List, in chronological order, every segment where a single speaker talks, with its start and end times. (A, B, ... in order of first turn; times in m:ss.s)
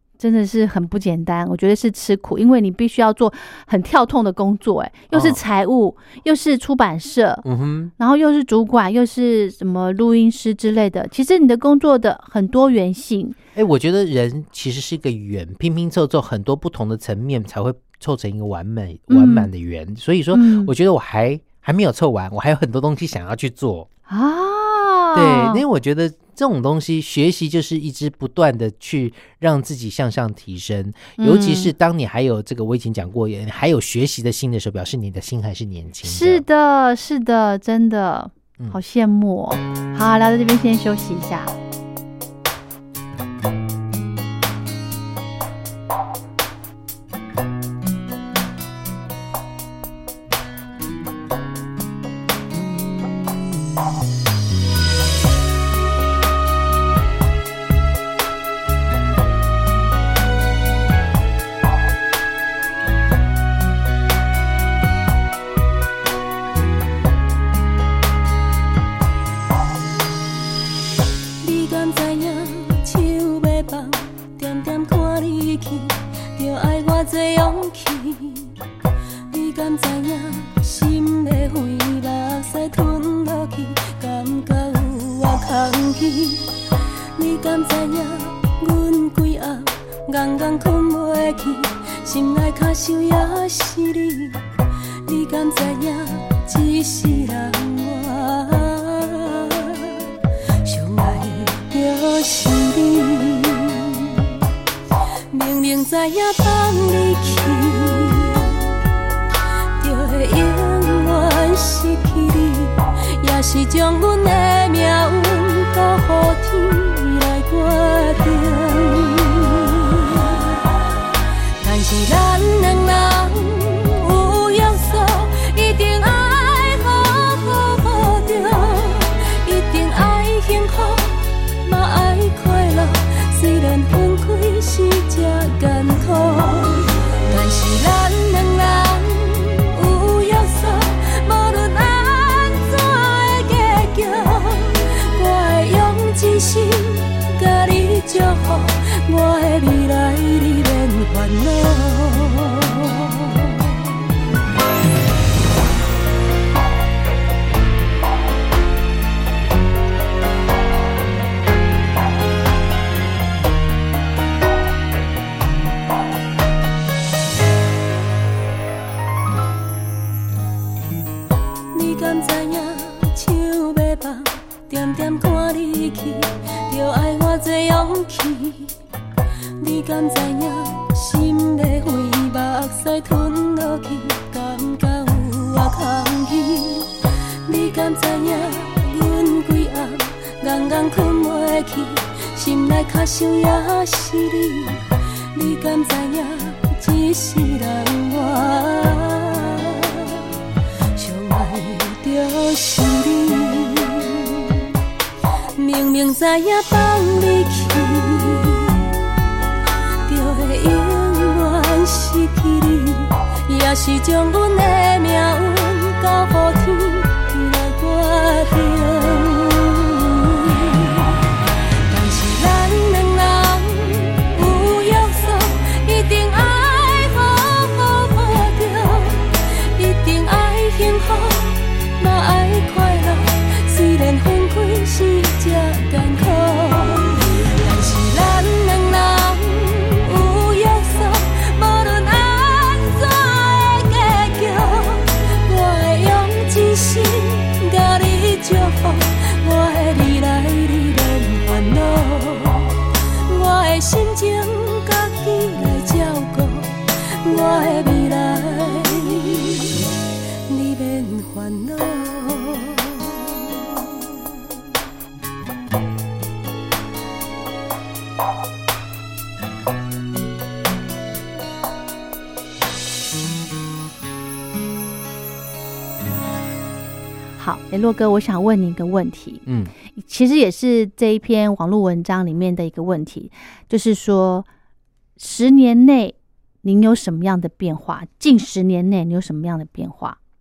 0:00.2-0:07.4 A
0:05.1-0:05.4 B
0:07.4-0:07.9 B
0:08.0-0:13.4 A
0:13.6-0:23.9 B
0:19.1-0:19.5 A
0:20.3-0:20.7 A
0:24.1-0:25.6 A
0:25.1-0:36.4 B
0:31.2-0:31.7 A
0:36.0-0:41.5 A
1:11.4-1:18.5 C
1:19.3-1:26.5 C
1:27.2-1:34.4 C
1:35.0-1:40.0 C
1:40.6-1:44.4 C
1:45.3-1:48.7 C
1:49.8-2:00.5 C
2:01.6-2:33.6 C
2:51.7-2:58.7 C
2:59.6-3:06.9 C
3:07.4-3:20.2 C
3:21.0-3:24.7 C
3:25.6-3:29.0 C
3:30.1-3:41.2 C
3:41.9-4:19.9 C
4:20.5-4:24.2 C
4:37.4-4:44.5 A
4:39.5-4:39.7 B
4:45.2-4:50.2 A